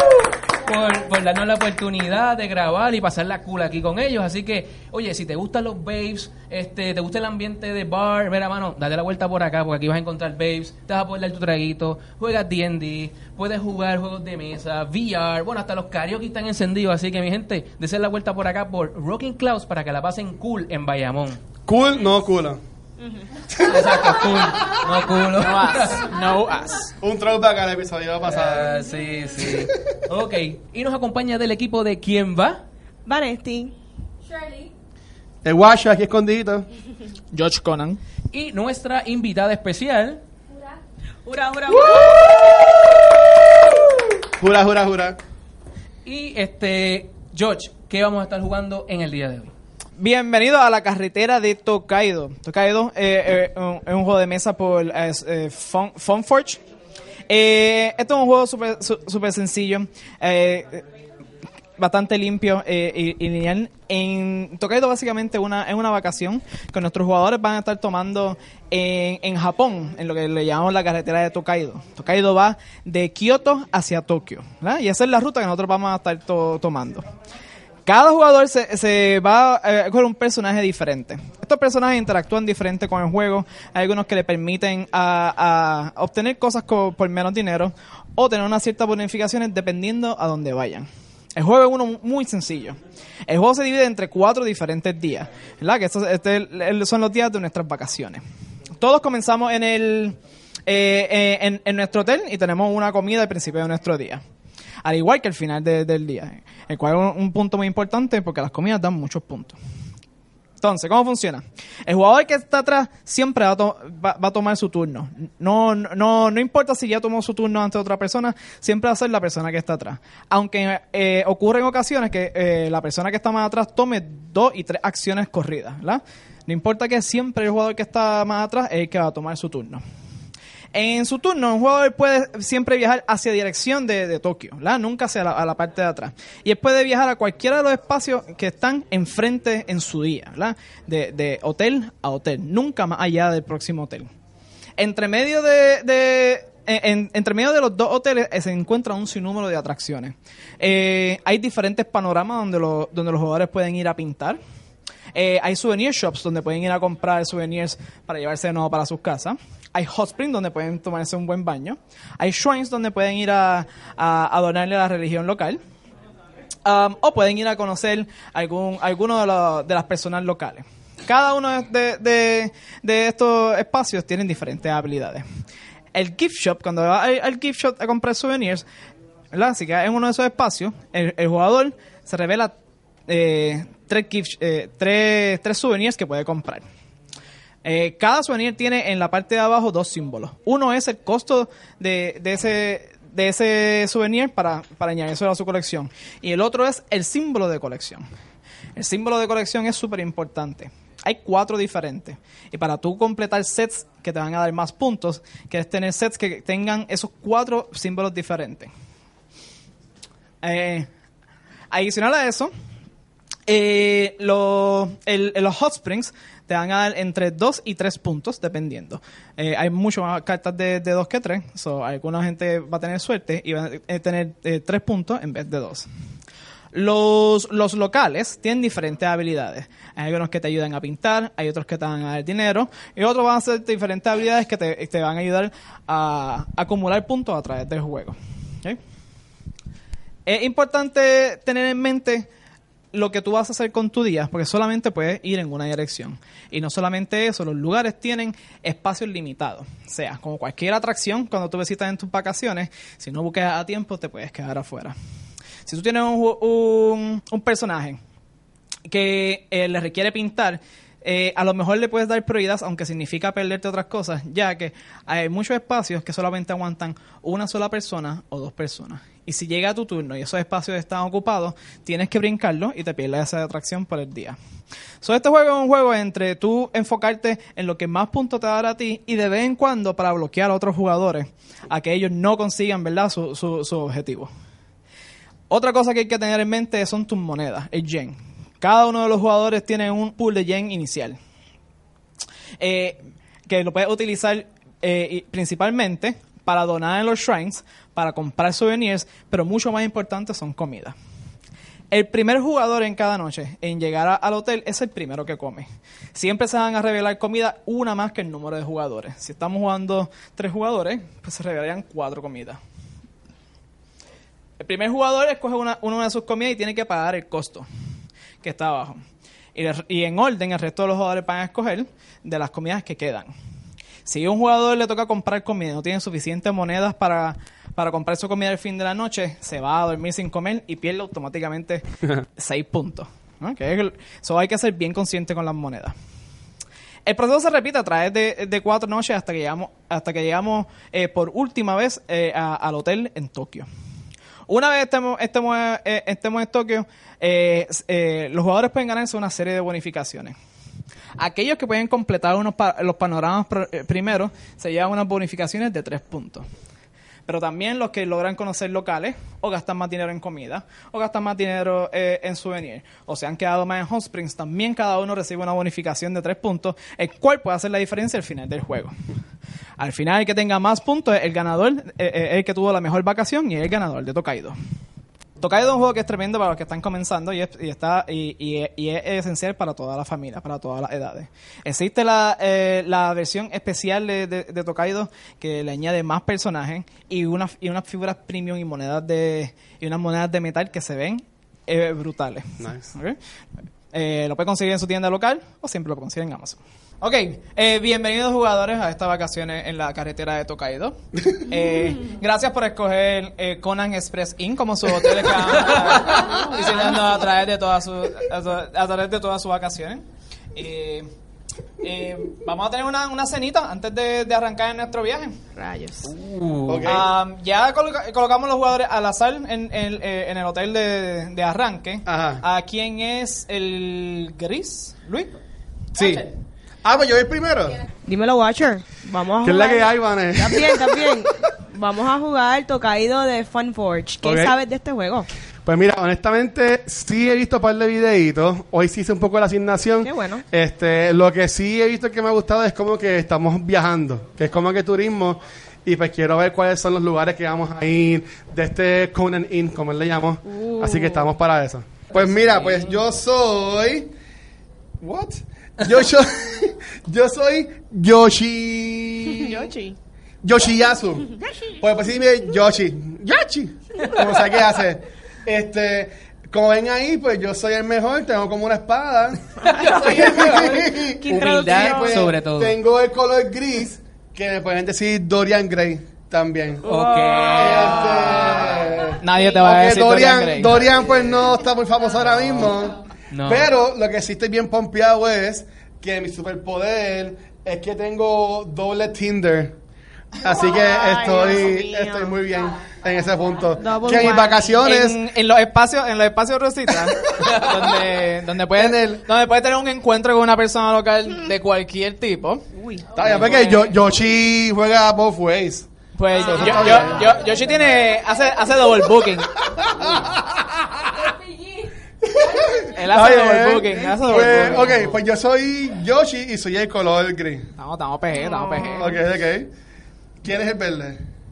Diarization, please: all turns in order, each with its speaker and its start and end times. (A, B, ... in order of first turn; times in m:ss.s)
0:00.6-0:21.4 A
0:21.6-0:22.6 B
0:23.0-0:23.3 C
0:23.5-0:24.6 B
0:23.6-0:26.1 A
0:25.3-0:26.9 D
0:27.0-0:28.8 B
0:28.2-0:32.6 A
0:29.4-0:29.6 B
0:33.0-0:33.7 C
0:34.2-0:34.7 E
0:35.4-0:36.7 B
0:37.3-0:38.0 D
0:38.3-0:40.2 A
0:41.2-0:42.8 C
0:44.4-0:45.2 B
0:46.0-0:49.5 A
0:50.0-0:56.6 D
0:57.3-1:00.8 D
1:01.8-1:17.1 D
1:17.8-1:38.2 D
1:38.8-1:44.2 D
1:44.8-1:49.6 D
1:50.6-2:09.8 D
2:10.7-2:24.1 D
2:24.8-2:34.4 D
2:35.1-2:45.6 D
2:46.6-2:55.2 D
2:55.9-2:58.6 D
2:59.3-3:02.5 D
3:03.1-3:06.6 D
3:07.6-3:18.0 D
3:18.8-3:28.7 D
3:30.4-3:30.9 D
3:31.7-3:32.5 D
3:33.5-3:45.9 D
3:46.7-3:58.8 D
4:00.2-4:02.3 D
4:02.9-4:15.0 D
4:15.6-4:18.0 D
4:18.8-4:34.4 D
4:35.0-4:44.3 D
4:45.5-4:51.2 D
4:52.6-5:01.0 D
5:01.9-5:12.6 D
5:14.6-5:17.7 D
5:18.4-5:19.0 D
5:19.5-5:23.3 D
5:24.0-5:31.8 D
5:32.4-5:35.9 D
5:37.0-5:43.7 D
5:44.5-5:50.4 D
5:51.2-5:56.4 D
5:57.2-6:08.9 D
6:09.8-6:14.6 D
6:15.4-6:33.2 D
6:32.6-6:32.9 B
6:33.9-6:51.1 D
6:46.5-6:46.8 C
6:51.8-6:55.4 D
6:55.5-6:56.1 C
6:56.0-6:56.9 A
6:56.6-6:57.1 B
6:56.8-7:05.3 D
7:02.0-7:02.4 B
7:05.9-7:06.3 B
7:06.0-7:06.3 D
7:06.8-7:07.8 B
7:08.0-7:15.3 C
7:09.4-7:11.2 B
7:14.2-7:14.6 B
7:15.6-7:34.1 B
7:20.0-7:20.4 C
7:30.4-7:31.3 C
7:32.1-7:33.0 A
7:35.0-7:39.7 B
7:39.3-7:40.0 C
7:40.4-7:56.8 B
7:49.6-7:52.3 C
7:49.7-7:52.8 A
7:56.8-7:58.4 C
7:56.8-7:58.9 A
7:57.5-8:09.8 B
7:59.2-8:01.2 D
8:03.3-8:03.7 A
8:10.4-8:15.2 B
8:10.4-8:12.4 C
8:13.7-8:14.8 C
8:14.8-8:22.6 D
8:17.4-8:17.9 A
8:18.7-8:19.2 B
8:22.7-8:23.8 C
8:23.1-8:27.3 B
8:23.2-8:23.5 D
8:26.1-8:29.5 D
8:26.7-8:28.7 E
8:29.6-8:31.0 B
8:31.4-8:31.8 E
8:32.4-8:37.7 B
8:32.5-8:32.8 E
8:32.9-8:35.0 D
8:33.8-8:34.9 C
8:37.8-8:39.1 D
8:38.3-8:39.2 C
8:39.0-8:39.7 B
8:40.4-8:41.2 B